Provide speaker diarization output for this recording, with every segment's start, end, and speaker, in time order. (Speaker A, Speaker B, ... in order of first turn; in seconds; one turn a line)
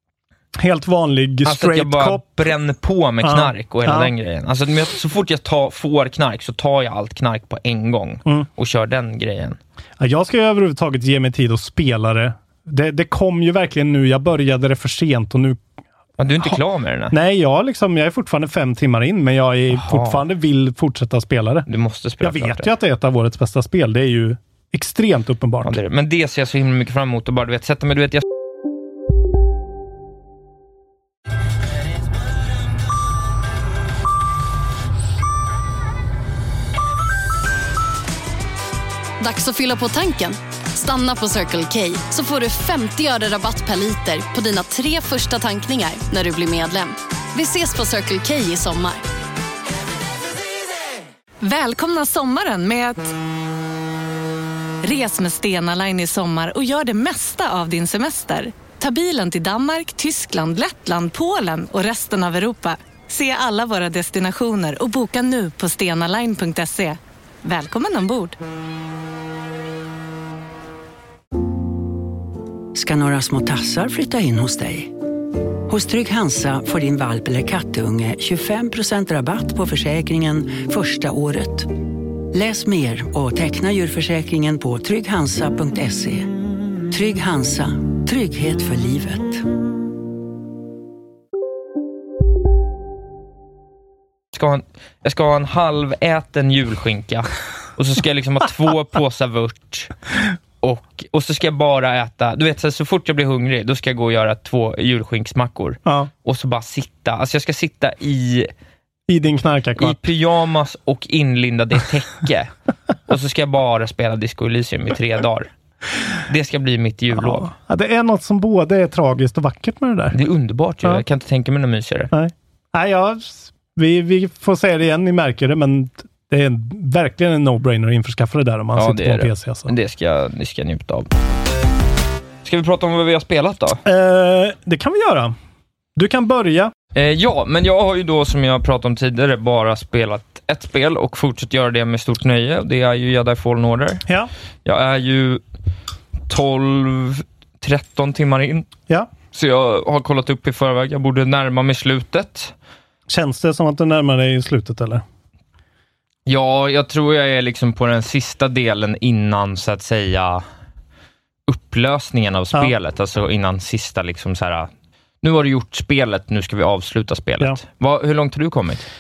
Speaker A: 0.6-2.2
Speaker B: 1.4-9.6
Speaker A: 3.2-4.1
Speaker A: 10.0-15.6
Speaker B: 16.2-17.1
Speaker A: 16.4-21.7
Speaker B: 19.7-20.2
Speaker B: 21.7-22.7
Speaker A: 22.2-25.8
Speaker B: 25.6-28.2
Speaker C: 39.2-49.0
Speaker D: 51.4-53.1
Speaker D: 54.8-68.4
Speaker E: 72.7-74.9
Speaker E: 75.7-81.7
Speaker E: 82.3-86.3
Speaker E: 86.9-89.4
Speaker B: 94.3-99.9
Speaker B: 100.6-108.5
Speaker A: 109.1-110.0
Speaker B: 109.8-112.5
Speaker B: 113.1-115.5
Speaker B: 116.3-117.5
Speaker A: 117.2-120.2
Speaker B: 120.1-122.1
Speaker A: 122.1-129.7
Speaker B: 128.8-131.1
Speaker B: 132.4-133.8
Speaker A: 133.8-135.3
Speaker A: 136.0-136.7
Speaker B: 136.9-144.1
Speaker B: 144.7-145.4
Speaker B: 146.3-148.7
Speaker B: 149.3-152.5
Speaker A: 153.1-155.0
Speaker B: 156.3-160.4
Speaker B: 161.5-164.7
Speaker B: 165.2-168.9